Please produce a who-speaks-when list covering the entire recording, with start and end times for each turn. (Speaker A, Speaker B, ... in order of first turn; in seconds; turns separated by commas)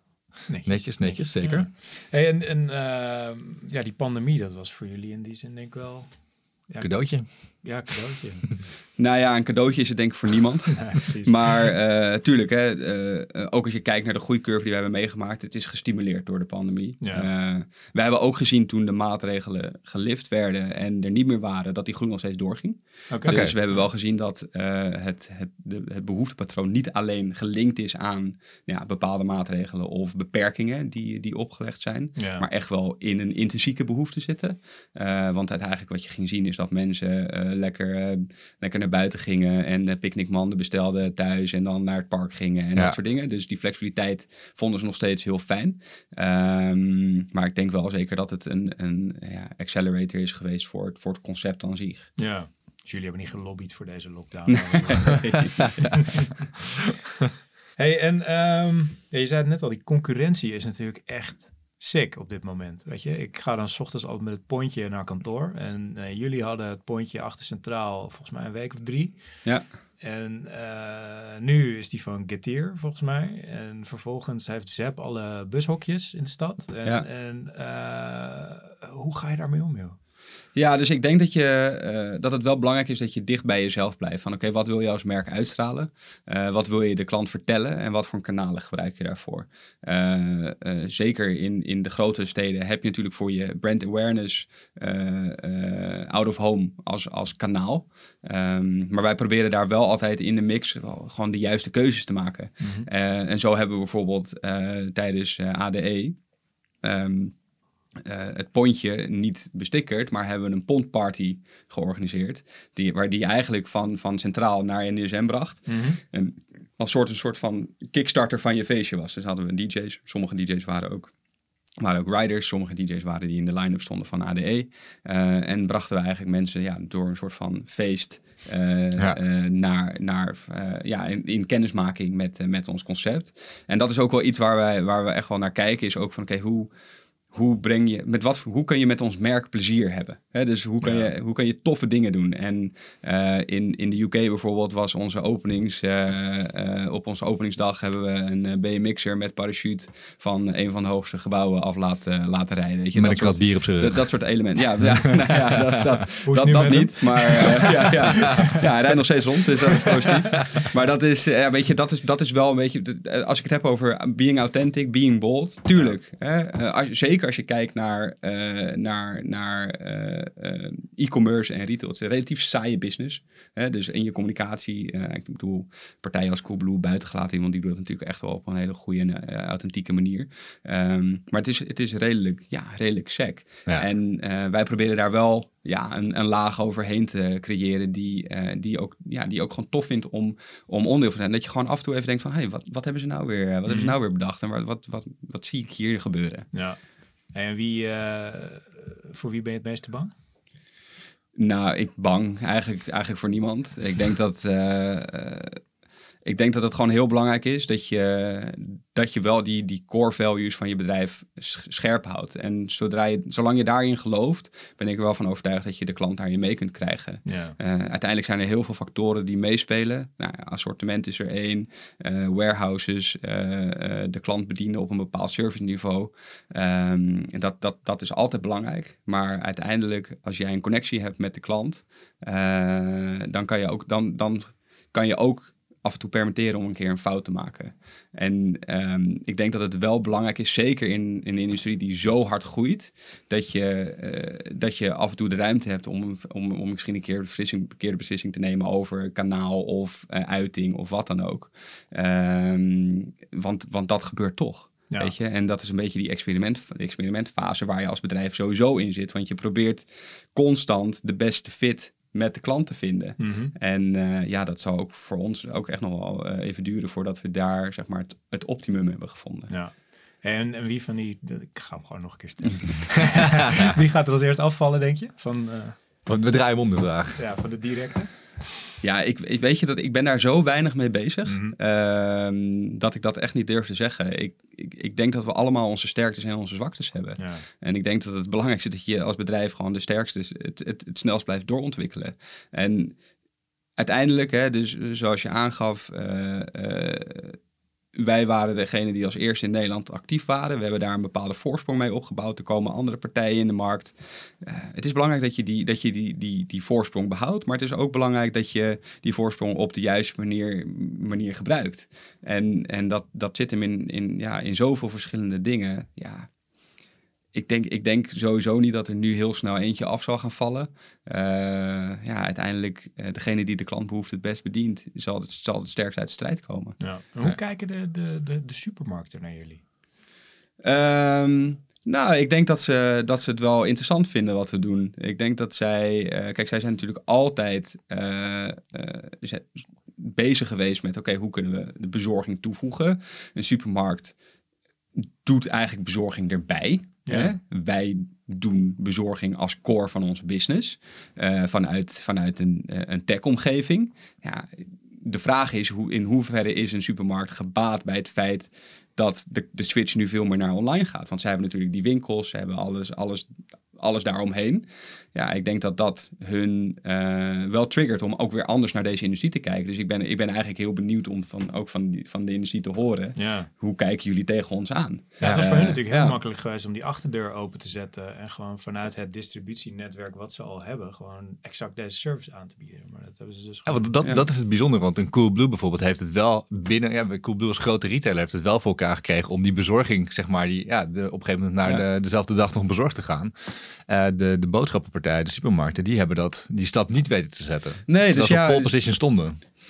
Speaker A: 0.4-1.7, Speaker B: 0.5-8.7, Speaker A: 6.8-7.7, Speaker C: 9.0-52.2, Speaker B: 10.9-11.7, Speaker B: 17.0-17.3, Speaker B: 23.1-23.5, Speaker A: 23.3-23.6, Speaker B: 32.2-32.5, Speaker B: 52.2-56.4, Speaker C: 54.5-55.9, Speaker B: 57.8-69.5, Speaker B: 70.0-80.0, Speaker C: 80.6-106.2, Speaker B: 102.6-102.9, Speaker C: 106.8-107.4, Speaker C: 108.0-121.1, Speaker B: 115.7-116.0, Speaker C: 121.8-136.7, Speaker C: 137.3-196.5, Speaker B: 140.8-141.1, Speaker A: 152.9-155.5, Speaker B: 156.2-158.6, Speaker B: 193.7-194.0, Speaker B: 196.5-200.1, Speaker C: 201.4-205.6, Speaker C: 206.2-269.5, Speaker B: 217.2-217.6, Speaker B: 263.2-263.5, Speaker B: 269.5-275.8, Speaker A: 276.1-277.2, Speaker B: 277.2-278.2, Speaker C: 278.8-293.0, Speaker B: 281.3-281.6, Speaker B: 287.2-287.4, Speaker C: 293.8-297.4, Speaker C: 297.9-316.3, Speaker C: 317.3-326.8, Speaker B: 326.8-329.6, Speaker C: 330.6-344.2, Speaker C: 345.0-376.2, Speaker B: 347.1-347.3, Speaker B: 373.2-373.5, Speaker A: 375.2-375.7, Speaker B: 375.2-383.9, Speaker A: 383.7-393.3, Speaker A: 393.9-399.4, Speaker C: 397.9-398.8